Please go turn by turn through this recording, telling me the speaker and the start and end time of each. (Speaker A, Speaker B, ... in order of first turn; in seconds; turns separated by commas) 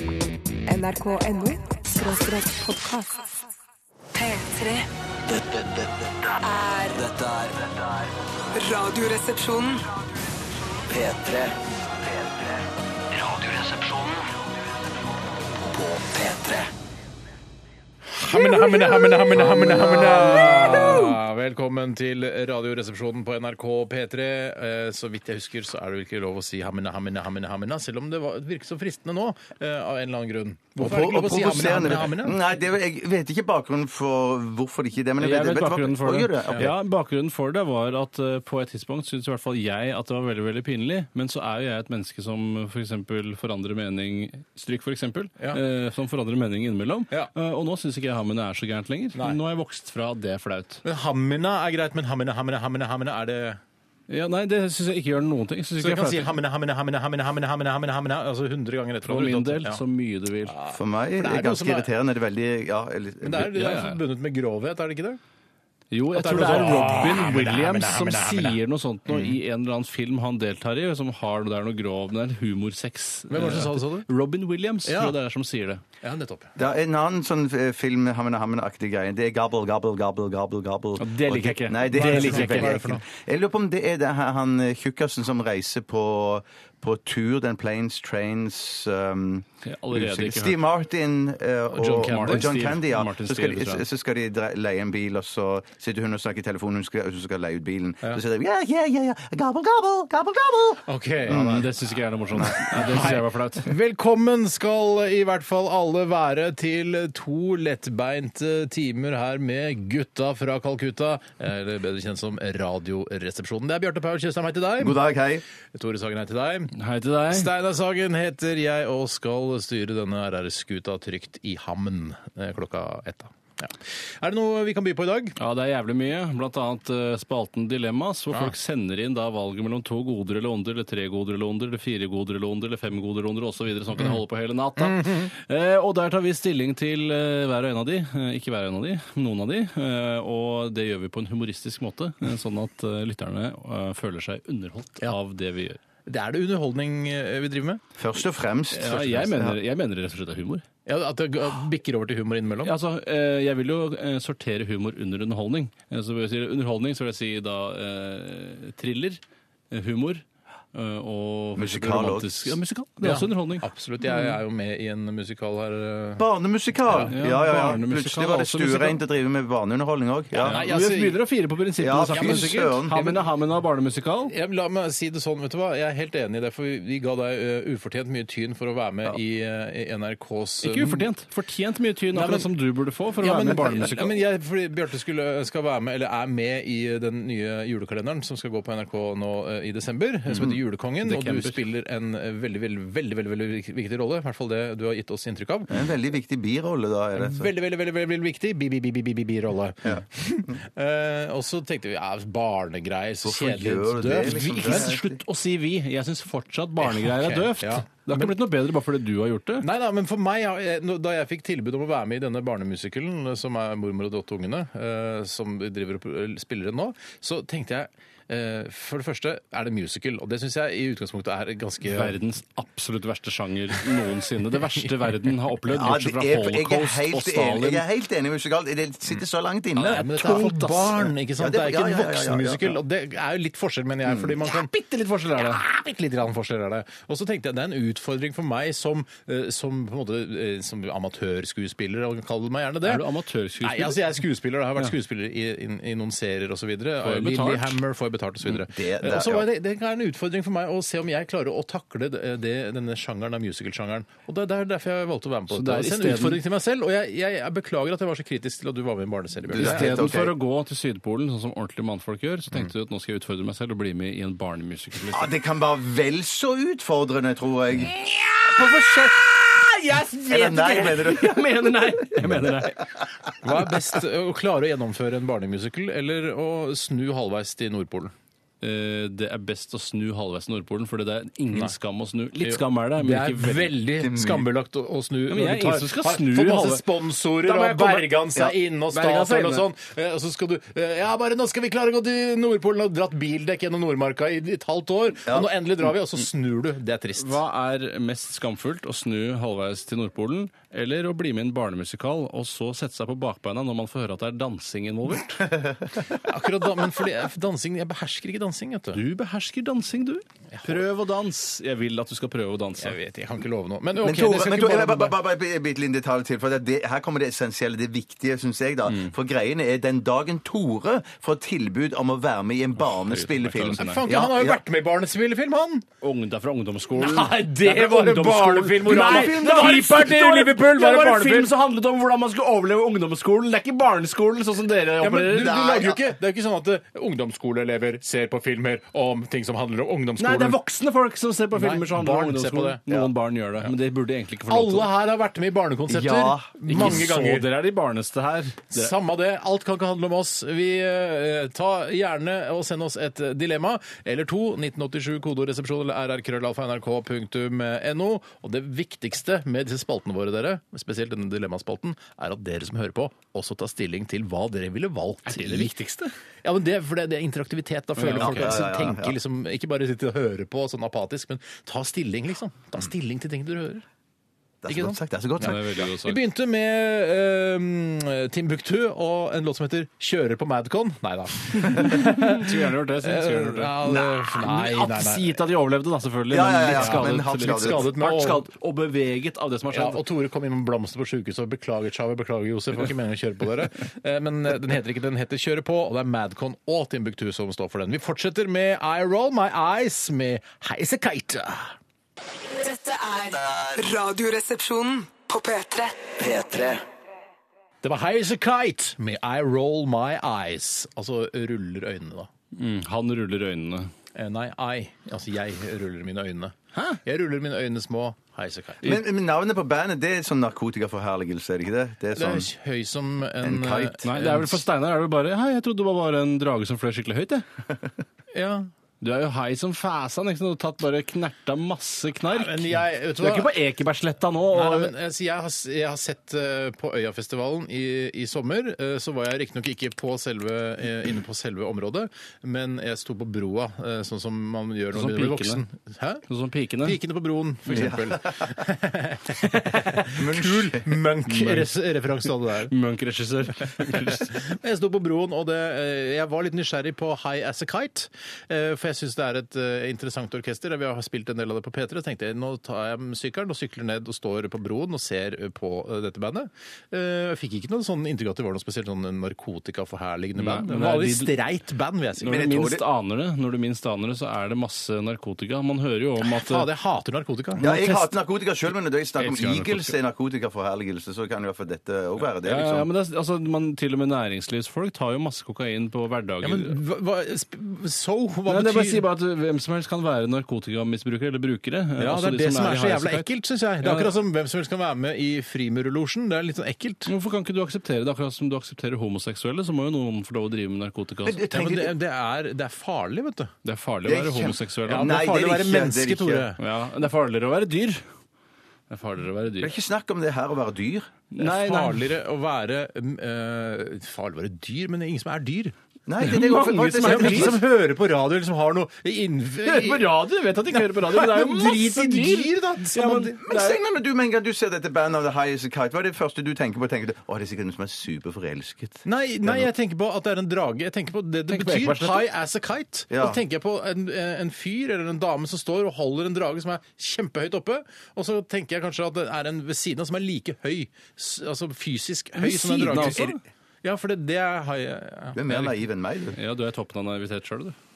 Speaker A: 0.7-3.2, Speaker A: 4.1-4.9, Speaker B: 5.3-5.8, Speaker A: 6.3-7.0, Speaker B: 6.9-8.1, Speaker A: 8.5-9.8, Speaker B: 10.9-11.5, Speaker B: 12.1-12.5, Speaker B: 13.1-14.2, Speaker B: 15.6-16.7, Speaker C: 18.1-32.4, Speaker A: 18.3-19.3, Speaker D: 30.8-36.7, Speaker E: 35.2-50.8, Speaker C: 50.8-53.6, Speaker E: 54.1-56.4, Speaker C: 55.8-59.8, Speaker E: 59.0-60.6, Speaker C: 60.5-61.9, Speaker D: 60.7-63.5, Speaker C: 63.2-65.2, Speaker E: 63.5-64.0, Speaker E: 65.9-75.8, Speaker C: 66.1-69.4, Speaker C: 73.3-74.0, Speaker C: 74.8-75.2, Speaker C: 76.0-76.5, Speaker D: 76.6-101.7, Speaker E: 81.0-82.8, Speaker C: 81.9-83.0, Speaker E: 89.6-90.6, Speaker C: 91.7-92.5, Speaker E: 91.8-93.8, Speaker C: 100.8-101.5, Speaker E: 101.3-103.7, Speaker D: 102.3-103.1, Speaker C: 102.7-115.0, Speaker D: 114.8-115.4, Speaker C: 115.7-116.7, Speaker E: 116.7-117.5, Speaker C: 117.3-125.3, Speaker E: 125.4-145.8, Speaker C: 134.8-135.3, Speaker C: 146.1-147.8, Speaker D: 148.0-149.6, Speaker E: 148.7-150.7, Speaker C: 150.8-152.7, Speaker E: 152.6-164.2, Speaker D: 161.6-162.6, Speaker C: 163.0-166.3, Speaker D: 166.2-170.6, Speaker C: 166.8-167.2, Speaker E: 167.1-169.0, Speaker E: 170.4-174.3, Speaker C: 170.4-171.2, Speaker D: 171.8-173.2, Speaker C: 172.1-172.6, Speaker C: 174.3-181.1, Speaker E: 180.6-184.1, Speaker C: 182.1-182.5, Speaker C: 183.2-195.7, Speaker E: 191.0-191.6, Speaker D: 195.7-197.5, Speaker C: 197.1-205.0, Speaker D: 199.8-200.6, Speaker D: 203.2-205.2, Speaker E: 204.2-209.7, Speaker C: 206.8-208.3, Speaker C: 209.6-222.2, Speaker E: 221.8-227.8, Speaker D: 225.7-230.4, Speaker E: 229.8-231.0, Speaker C: 229.8-234.7, Speaker D: 231.3-232.8, Speaker D: 234.0-234.3, Speaker E: 234.4-235.6, Speaker C: 235.3-243.0, Speaker E: 242.8-244.0, Speaker C: 243.6-260.1, Speaker E: 247.0-247.8, Speaker D: 248.5-249.5, Speaker E: 255.5-256.4, Speaker D: 259.5-260.3, Speaker E: 259.6-265.3, Speaker D: 265.1-267.9, Speaker E: 267.9-272.8, Speaker D: 268.6-269.1, Speaker D: 270.3-271.8, Speaker C: 273.4-278.1, Speaker E: 278.6-283.7, Speaker C: 282.4-297.4, Speaker D: 284.0-284.5, Speaker E: 285.3-289.6, Speaker E: 297.1-305.4, Speaker D: 305.4-306.2, Speaker C: 306.1-309.0, Speaker E: 308.9-313.0, Speaker C: 310.5-310.8, Speaker C: 312.8-315.2, Speaker D: 314.0-324.6, Speaker E: 322.8-324.0, Speaker C: 323.7-325.9, Speaker E: 326.0-335.7, Speaker C: 326.9-331.5, Speaker D: 328.9-329.9, Speaker C: 335.0-340.6, Speaker D: 335.4-336.0, Speaker E: 340.2-344.9, Speaker C: 341.5-342.8, Speaker C: 344.5-347.5, Speaker D: 345.9-346.9, Speaker E: 346.6-348.9, Speaker C: 348.7-365.7, Speaker E: 365.2-366.1, Speaker C: 366.4-373.8, Speaker E: 368.0-368.6, Speaker D: 368.1-369.1, Speaker D: 374.6-375.9, Speaker C: 374.7-385.4, Speaker E: 375.4-376.2, Speaker E: 381.6-390.0, Speaker D: 386.3-387.9, Speaker C: 386.7-388.4, Speaker C: 389.7-401.8, Speaker A: 402.4-406.2, Speaker B: 406.2-406.8, Speaker C: 407.8-412.3, Speaker E: 412.5-413.9, Speaker C: 414.1-418.8, Speaker E: 416.7-417.0, Speaker D: 418.8-422.5, Speaker C: 422.1-424.6, Speaker D: 423.4-424.0, Speaker E: 424.0-427.4, Speaker C: 428.3-428.7, Speaker E: 429.0-434.9, Speaker C: 432.2-433.6, Speaker C: 434.5-446.2, Speaker E: 444.9-445.6, Speaker E: 446.3-447.0, Speaker C: 446.8-452.7, Speaker E: 447.7-447.9, Speaker D: 447.7-448.5, Speaker D: 450.0-451.0, Speaker E: 451.3-451.8, Speaker E: 452.7-454.4, Speaker C: 453.8-472.4, Speaker E: 470.4-471.3, Speaker E: 472.2-476.7, Speaker D: 472.2-472.8, Speaker C: 476.2-478.1, Speaker D: 477.6-482.9, Speaker C: 479.2-479.7, Speaker E: 479.3-479.9, Speaker E: 482.4-486.8, Speaker C: 486.4-489.0, Speaker E: 488.5-493.3, Speaker C: 492.0-497.1, Speaker E: 493.8-494.1, Speaker E: 497.1-501.4, Speaker D: 501.2-501.9, Speaker C: 501.5-503.5, Speaker E: 503.6-505.2, Speaker D: 504.0-506.5, Speaker C: 504.9-506.6, Speaker E: 506.6-508.0, Speaker E: 508.9-509.7, Speaker D: 509.6-511.1, Speaker E: 511.3-512.1, Speaker C: 511.4-515.7, Speaker D: 516.1-517.6, Speaker E: 516.2-517.6, Speaker C: 517.0-520.1, Speaker E: 519.6-523.8, Speaker C: 520.7-523.4, Speaker D: 523.4-529.7, Speaker C: 529.0-545.4, Speaker E: 531.5-532.2, Speaker D: 533.1-533.4, Speaker E: 542.4-543.4, Speaker D: 542.9-543.3, Speaker D: 545.3-546.4, Speaker E: 546.3-547.7